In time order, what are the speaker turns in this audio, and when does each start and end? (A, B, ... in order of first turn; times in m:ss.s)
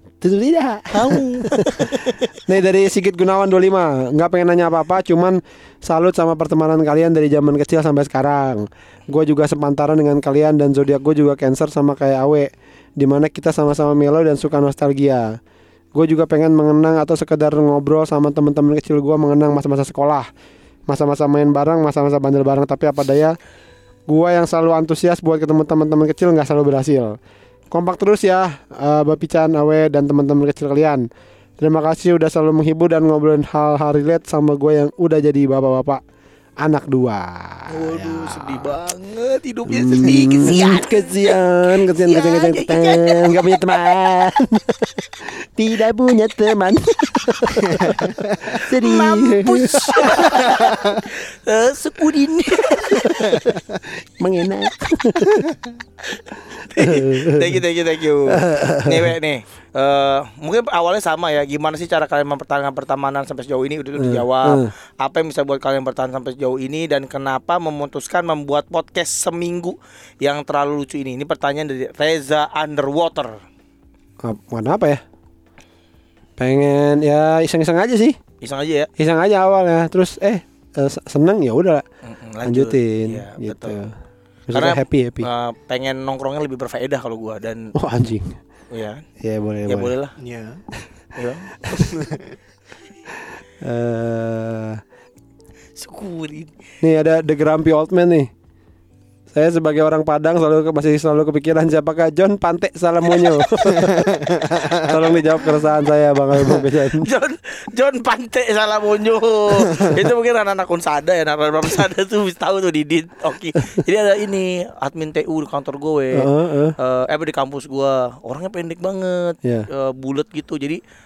0:00.2-0:15.4 A
0:00.9-0:02.2 B
0:15.9-0:20.3 A
0:20.9-0:23.3 A
0:24.1-0:27.2 A
0:27.7-0:31.0 A
0:31.6-0:36.0 A
0:36.6-0:38.8 A
0:37.7-0:43.6 B
0:39.7-0:50.8 A
0:47.7-0:48.4 C
0:48.5-0:53.5 B
0:53.0-0:53.5 A
0:54.2-0:55.5 A
0:56.1-1:13.4 B
0:56.8-0:57.6 A
0:58.3-0:59.1 A
1:04.0-1:04.7 A
1:14.2-1:15.0 A
1:16.4-1:18.2 A
1:18.4-1:18.9 B
1:19.0-1:21.8 A
1:22.0-1:23.8 B
1:22.4-1:23.9 A
1:24.5-1:25.3 A
1:24.5-1:27.7 B
1:27.7-1:28.4 A
1:28.7-1:29.0 B
1:29.2-1:29.9 A
1:29.7-1:30.1 B
1:30.2-1:30.6 C
1:31.2-1:31.8 B
1:31.7-1:32.1 A
1:31.9-1:32.2 C
1:33.6-1:34.8 A
1:35.8-1:36.5 B
1:36.8-1:38.3 A
1:39.3-1:47.1 A
1:43.9-1:44.8 C
1:46.9-2:00.8 B
1:56.1-1:56.7 A